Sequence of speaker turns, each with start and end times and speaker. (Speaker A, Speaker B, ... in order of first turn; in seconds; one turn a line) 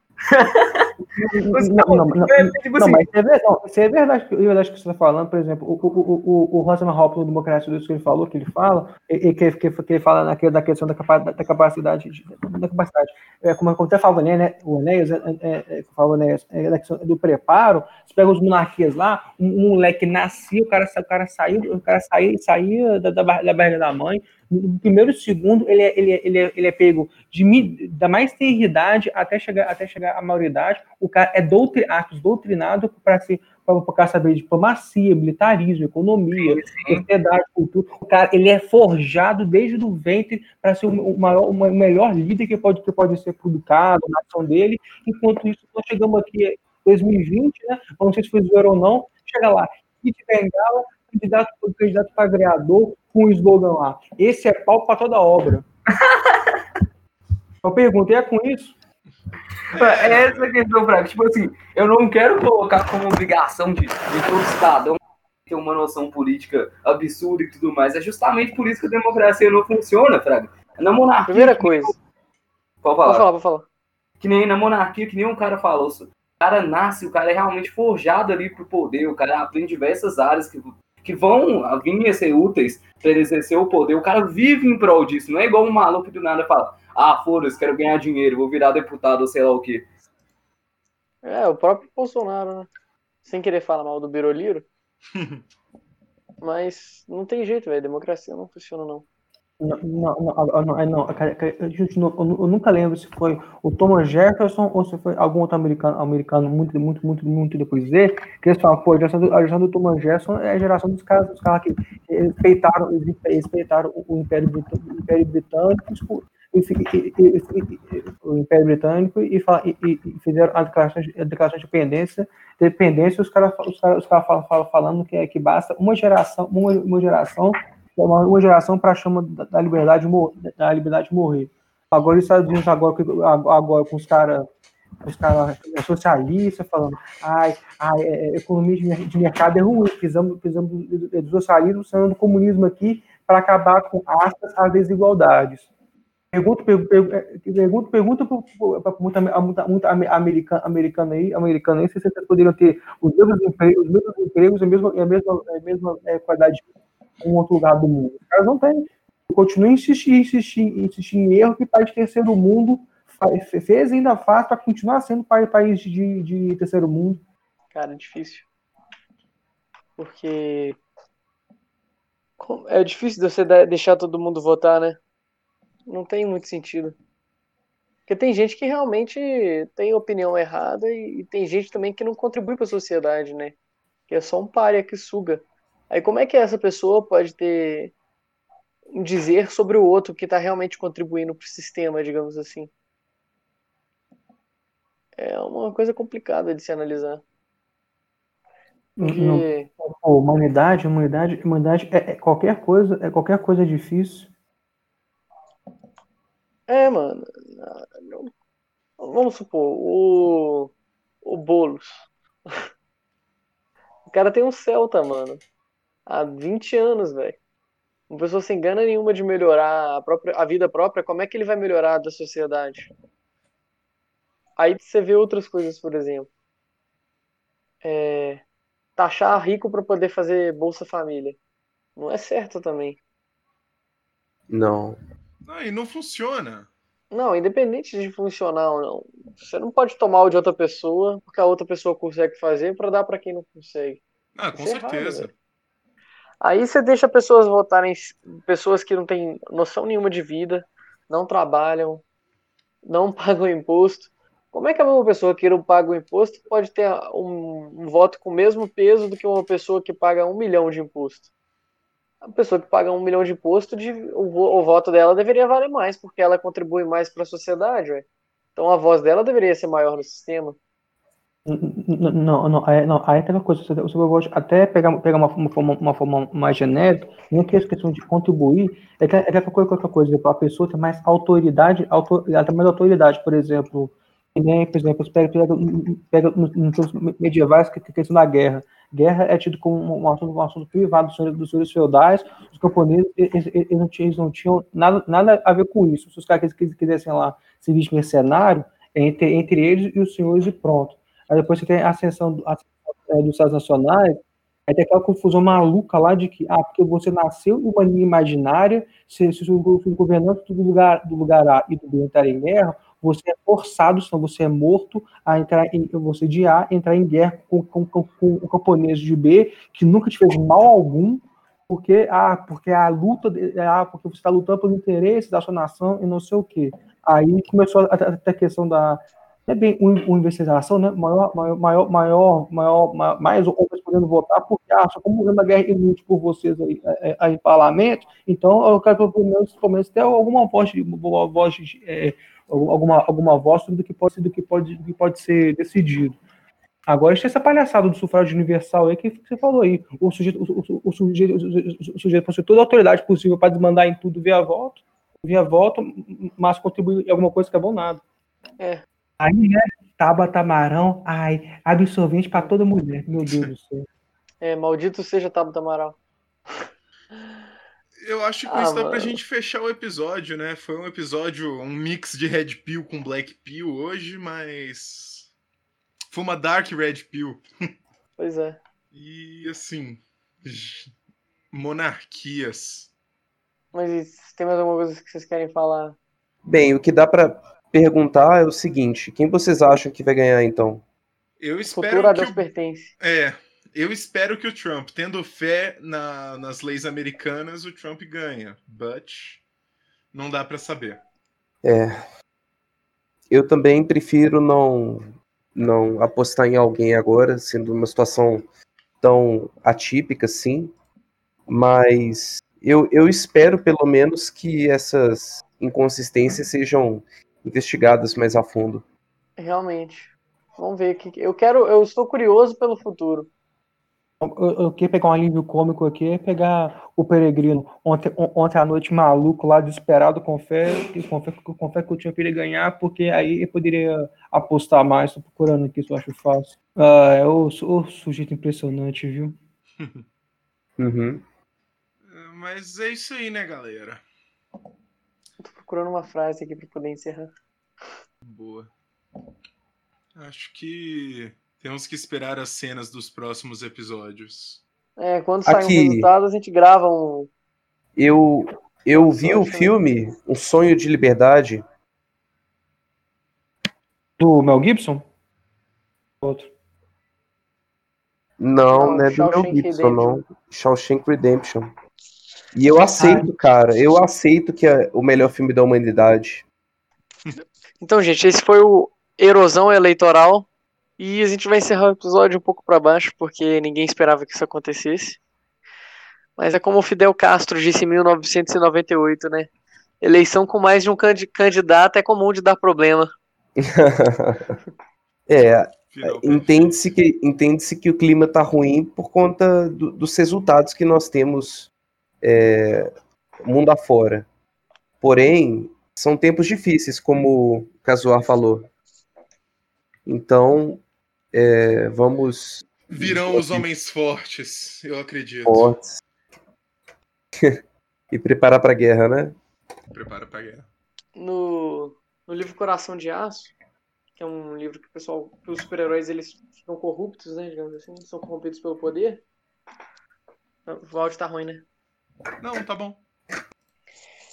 Speaker A: 0.2-0.9
Speaker B: 1.1-55.6
Speaker A: 1.5-3.0
Speaker A: 36.4-37.0
Speaker A: 56.0-56.6
Speaker B: 57.6-58.8
Speaker C: 59.7-60.5
Speaker A: 59.7-72.0
Speaker D: 71.3-72.0
Speaker A: 72.8-73.2
Speaker D: 73.0-73.7
Speaker A: 74.2-89.8
Speaker D: 91.2-92.7
Speaker D: 93.2-94.7
Speaker C: 95.1-95.4
Speaker D: 96.4-99.0
Speaker B: 99.6-134.5
Speaker B: 135.1-145.7
Speaker B: 146.3-156.7
Speaker B: 157.2-167.2
Speaker D: 167.7-168.5
Speaker D: 170.0-170.8
Speaker D: 172.4-175.0
Speaker D: 175.9-177.0
Speaker D: 178.1-183.6
Speaker D: 184.1-187.9
Speaker D: 188.9-192.7
Speaker D: 195.2-197.2
Speaker D: 199.0-199.7
Speaker B: 199.0-204.3
Speaker D: 206.7-208.3
Speaker D: 209.0-210.7
Speaker D: 211.2-212.7
Speaker D: 214.1-215.4
Speaker D: 216.1-217.4
Speaker D: 218.1-222.9
Speaker D: 224.6-226.3
Speaker D: 227.8-228.4
Speaker D: 229.0-231.4
Speaker D: 232.0-233.0
Speaker E: 234.5-235.0
Speaker C: 235.4-236.7
Speaker D: 237.1-244.0
Speaker C: 244.3-245.3
Speaker D: 244.5-245.3
Speaker D: 246.4-252.0
Speaker D: 252.8-261.3
Speaker D: 262.2-270.6
Speaker B: 271.5-346.2
Speaker B: 346.9-358.0
Speaker B: 359.2-363.9
Speaker D: 364.4-366.0
Speaker C: 368.0-375.3
Speaker D: 368.5-369.2
Speaker C: 376.1-377.4
Speaker D: 378.2-378.6
Speaker C: 378.9-380.9
Speaker C: 381.5-382.9
Speaker D: 383.7-386.0
Speaker E: 386.5-390.8
Speaker C: 391.4-392.5
Speaker D: 391.7-392.9
Speaker C: 393.0-399.4
Speaker C: 400.1-401.0
Speaker E: 401.6-402.0
Speaker E: 403.3-408.5
Speaker E: 409.0-410.7
Speaker E: 411.5-418.9
Speaker D: 419.4-423.3
Speaker B: 424.2-439.4
Speaker C: 439.8-440.0
Speaker E: 440.8-441.2
Speaker C: 442.1-444.0
Speaker D: 445.4-447.3
Speaker C: 448.2-448.7
Speaker C: 450.2-454.6
Speaker D: 455.0-457.3
Speaker E: 455.5-456.1
Speaker E: 458.0-461.6
Speaker D: 458.9-459.8
Speaker B: 464.2-465.1
Speaker B: 466.2-466.5
Speaker E: 468.4-471.7
Speaker D: 468.7-470.2
Speaker E: 472.6-476.4
Speaker B: 473.0-473.3
Speaker D: 477.8-480.5
Speaker D: 481.0-485.2
Speaker D: 486.4-489.5
Speaker D: 490.0-493.1
Speaker E: 493.6-494.6
Speaker E: 495.3-501.7
Speaker C: 495.9-496.8
Speaker E: 502.2-502.9
Speaker E: 503.4-504.3
Speaker E: 505.0-508.7
Speaker E: 510.1-510.8
Speaker E: 511.3-513.6
Speaker C: 512.9-515.7
Speaker E: 515.5-516.0
Speaker E: 518.1-519.4
Speaker C: 519.9-520.7
Speaker D: 521.2-523.5
Speaker D: 524.2-529.2
Speaker D: 530.7-531.6
Speaker C: 532.4-533.0